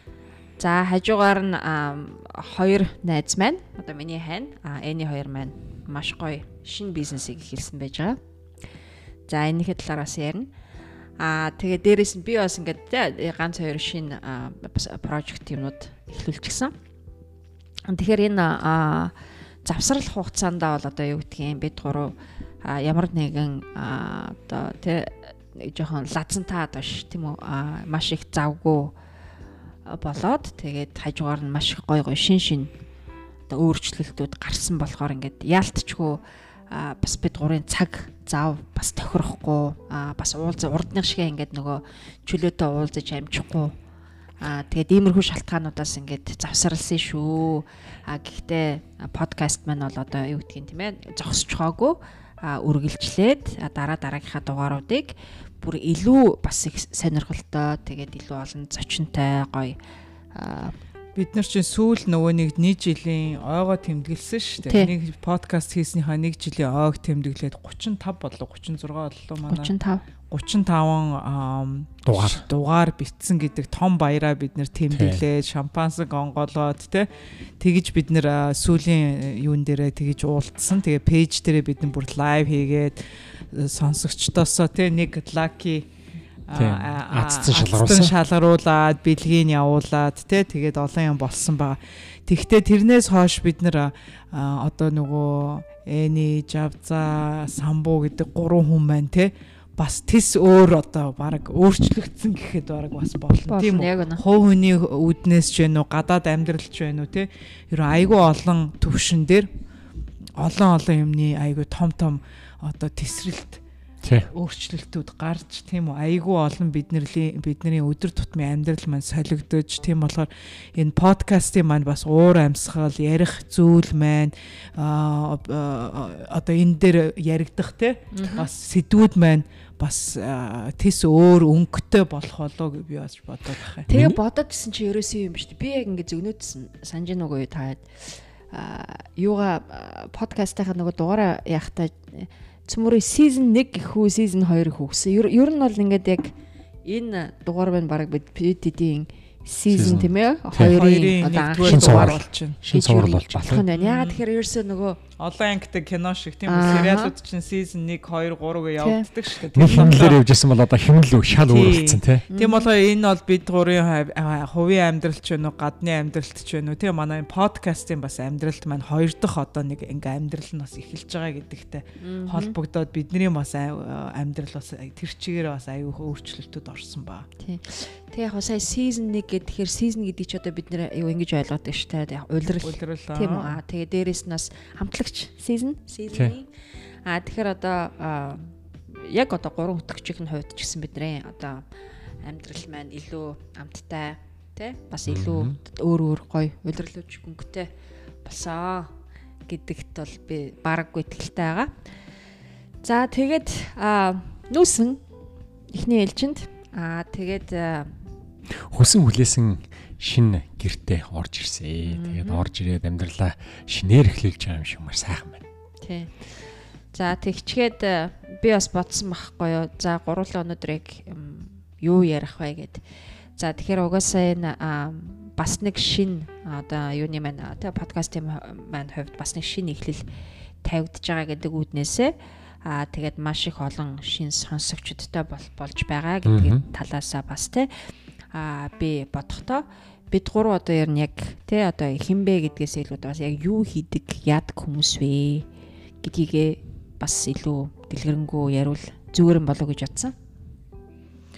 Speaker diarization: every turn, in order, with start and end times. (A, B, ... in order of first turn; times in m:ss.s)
0:00.6-0:08.2 A
0:09.3-0:10.5 A
0:11.2-0:16.7 A
0:17.9-0:28.9 A
0:29.8-0:32.7 A
0:33.5-0:43.8 A
0:44.4-0:59.8 A
1:00.3-1:00.7 A
1:01.2-1:09.7 B
1:04.7-1:04.9 A
1:09.5-1:10.0 A
1:10.3-1:17.1 B
1:12.0-1:12.4 C
1:14.9-1:15.2 C
1:17.6-1:25.9 B
1:26.5-1:49.5 B
1:26.5-1:28.1 C
1:43.5-1:44.2 A
1:50.4-1:53.6 B
1:54.0-1:54.3 C
1:54.3-2:13.9 B
2:08.1-2:08.5 A
2:13.9-2:14.2 C
2:13.9-2:26.3 A
2:26.8-2:35.0 A
2:29.7-2:30.8 C
2:30.6-2:32.6 B
2:31.6-2:33.6 C
2:33.7-2:34.2 B
2:35.2-2:40.2 B
2:36.5-2:37.1 A
2:38.8-2:39.1 A
2:39.5-2:42.2 C
2:41.3-2:57.3 B
2:42.3-2:42.7 A
2:52.0-2:52.5 A
2:57.4-3:06.5 A
3:02.6-3:03.6 B
3:07.0-3:11.6 A
3:12.2-3:17.7 A
3:15.1-3:15.6 C
3:18.2-3:18.9 A
3:19.5-3:21.7 A
3:22.8-3:25.0 A
3:25.7-3:28.0 A
3:28.5-3:35.4 C
3:31.8-3:32.4 A
3:35.8-3:36.4 A
3:36.9-3:42.8 A
3:43.4-3:50.1 A
3:50.6-3:57.7 A
3:56.2-3:56.6 C
3:58.3-4:05.5 A
4:06.0-4:10.1 A